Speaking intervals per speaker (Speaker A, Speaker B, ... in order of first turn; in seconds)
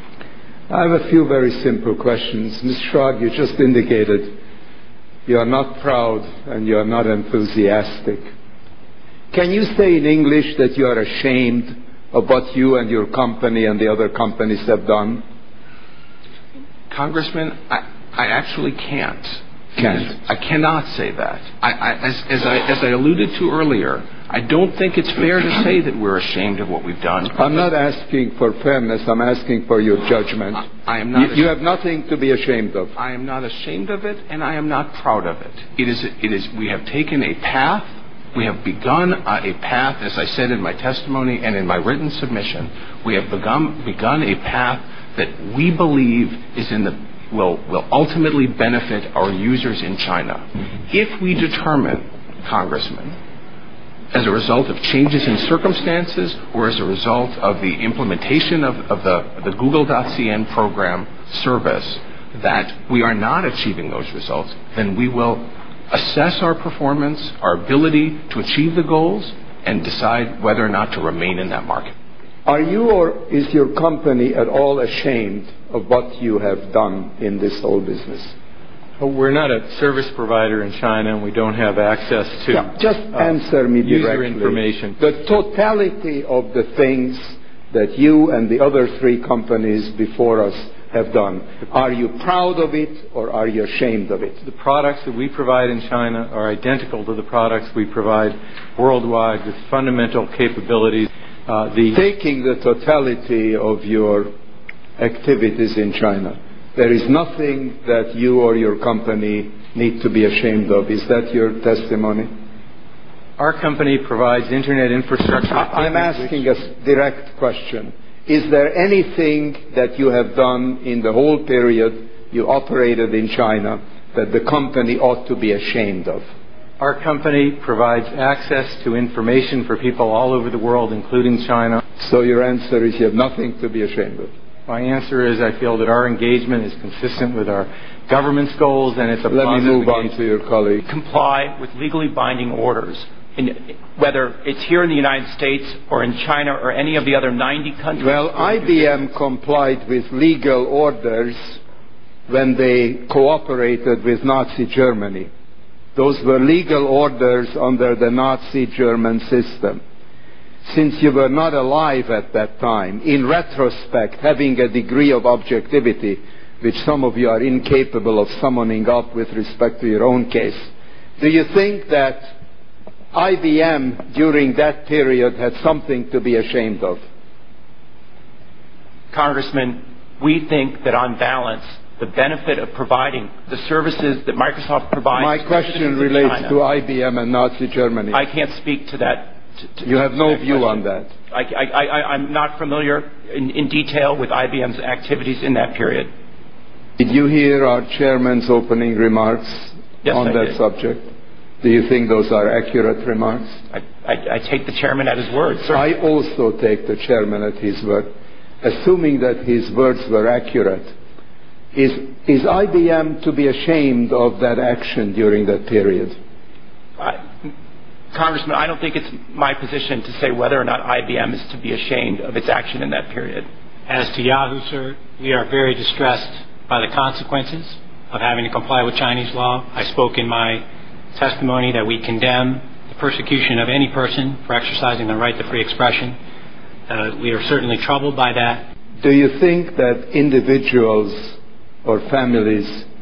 Speaker A: 0.7-4.4, 5.3-8.2, 9.3-15.2, 27.3-32.9, 72.5-78.3, 82.5-94.4, 101.9-104.3, 105.0-112.3, 115.5-126.2, 132.0-134.3, 139.3-140.8, 148.0-151.6, 152.3-155.3, 155.9-159.8, 160.6-172.3, 173.1-177.0, 185.1-188.2, 189.8-191.1, 197.0-201.1, 201.6-203.6, 205.7-208.1, 208.6-210.9, 211.7-216.2, 239.0-242.9
Speaker B: 16.9-27.5, 30.6-31.5, 33.0-53.2, 54.1-71.9
Speaker C: 79.0-85.0, 94.4-102.0, 113.4-116.4, 126.8-131.8, 134.7-140.1
Speaker D: 140.8-149.1, 179.1-186.6, 188.1-196.1, 200.0-200.6, 203.7-205.9, 217.0-217.5, 218.1-223.5
Speaker E: 223.9-230.6, 231.1-236.2, 236.9-238.7